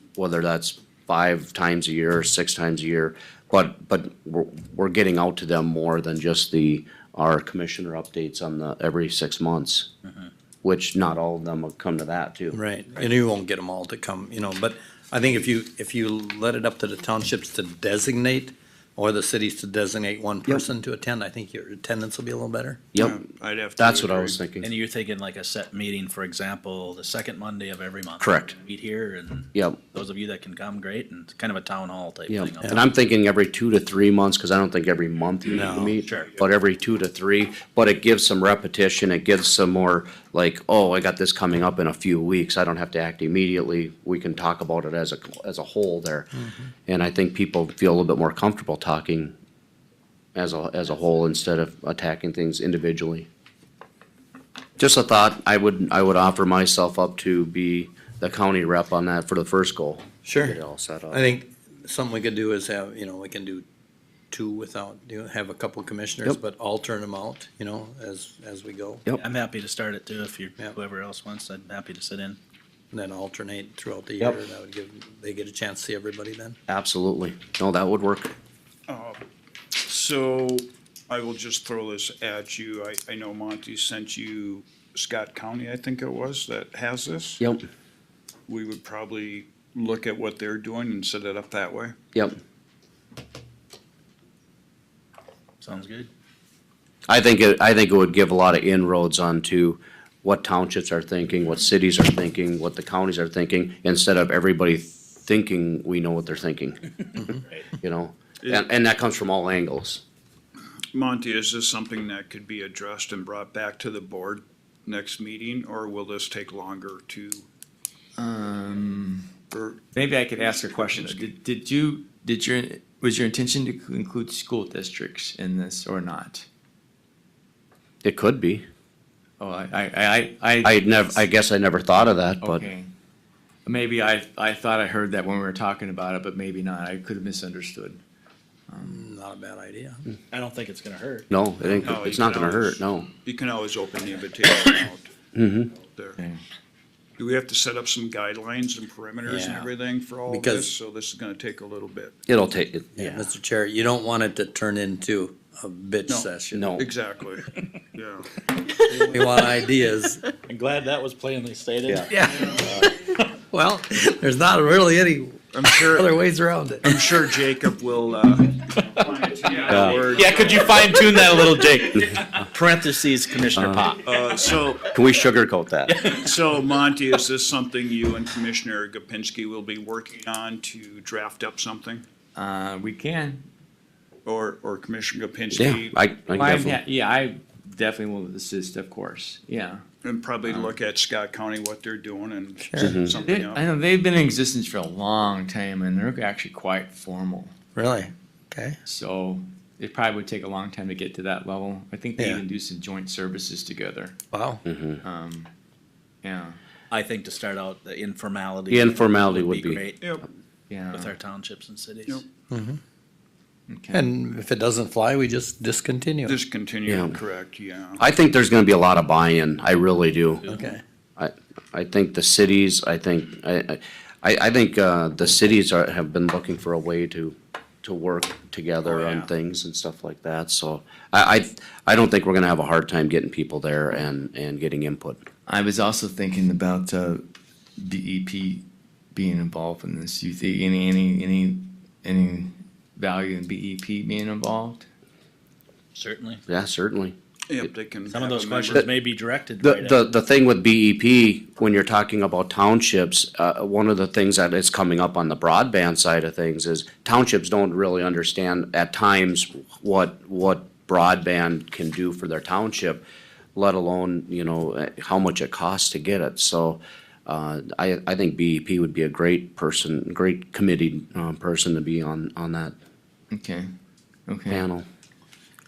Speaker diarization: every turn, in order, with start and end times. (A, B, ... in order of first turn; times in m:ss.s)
0:00.2-0:09.9 A
0:10.6-0:12.6 A
0:12.5-0:22.8 B
0:22.9-0:23.2 A
0:23.0-0:24.4 C
0:23.8-0:24.7 A
0:24.6-0:32.8 D
0:28.2-0:28.5 A
0:32.3-0:46.3 A
0:35.5-0:35.9 B
0:36.0-0:36.3 D
0:46.9-0:49.3 A
0:50.3-0:53.3 A
0:54.8-1:01.2 A
1:00.2-1:00.6 B
1:01.1-1:03.6 B
1:04.3-1:09.0 B
1:09.2-1:12.4 D
1:12.9-1:16.6 B
1:16.7-1:18.3 A
1:18.9-1:19.2 C
1:19.8-1:27.4 C
1:27.4-1:27.6 A
1:28.5-1:31.9 C
1:35.6-1:36.1 D
1:37.1-1:50.0 A
1:50.9-1:57.5 C
1:58.2-1:59.3 E
1:59.5-2:01.3 C
1:59.9-2:06.4 E
2:08.0-2:08.6 A
2:09.4-2:11.2 E
2:10.6-2:12.7 A
2:12.4-2:12.9 E
2:13.6-2:18.0 E
2:18.7-2:19.0 E
2:18.8-2:20.0 B
2:20.3-2:22.0 D
2:21.3-2:23.1 A
2:21.8-2:25.1 C
2:25.3-2:25.7 A
2:25.9-2:26.2 C
2:27.2-2:32.2 C
2:29.2-2:29.6 B
2:29.4-2:29.6 D
2:30.3-2:30.7 B
2:32.3-2:32.9 A
2:32.9-2:36.7 B
2:36.1-2:38.5 C
2:36.5-2:36.8 A
2:38.9-2:40.2 B
2:40.4-2:42.8 D
2:42.1-2:46.9 B
2:45.5-2:46.1 C
2:46.8-2:51.4 C
2:49.7-2:50.0 A
2:50.1-2:54.1 D
2:53.6-2:53.9 A
2:54.0-2:54.9 C
2:54.8-2:56.0 A
2:55.9-2:56.1 D
2:56.1-3:02.0 C
3:02.3-3:03.5 E
3:04.2-3:06.0 C
3:05.5-3:06.8 A
3:06.3-3:09.8 E
3:10.0-3:13.6 C
3:10.4-3:10.7 E
3:12.6-3:13.0 B
3:12.8-3:13.2 A
3:13.2-3:17.5 E
3:17.7-3:18.8 B
3:18.8-3:24.2 E
3:22.2-3:22.4 B
3:24.3-3:24.6 B
3:24.6-3:25.0 A
3:25.0-3:25.5 E
3:26.2-3:26.6 E
3:26.9-3:30.1 D
3:28.7-3:29.8 A
3:30.7-3:31.1 E
3:30.9-3:32.2 D
3:32.5-3:32.8 B
3:33.7-3:34.0 E
3:33.9-3:36.4 B
3:36.2-3:38.0 C
3:36.8-3:37.1 A
3:38.0-3:40.4 A
3:40.4-3:40.8 D
3:40.5-3:40.8 B
3:41.2-3:55.2 A
3:48.8-3:49.3 D
3:55.5-3:57.2 E
3:57.8-4:04.9 E
4:05.9-4:06.4 D
4:06.5-4:07.1 A
4:07.5-4:08.9 C
4:08.1-4:10.0 D
4:09.6-4:23.0 A
4:23.6-4:32.7 A
4:33.3-4:33.7 E
4:34.3-4:34.6 E
4:34.5-4:34.8 A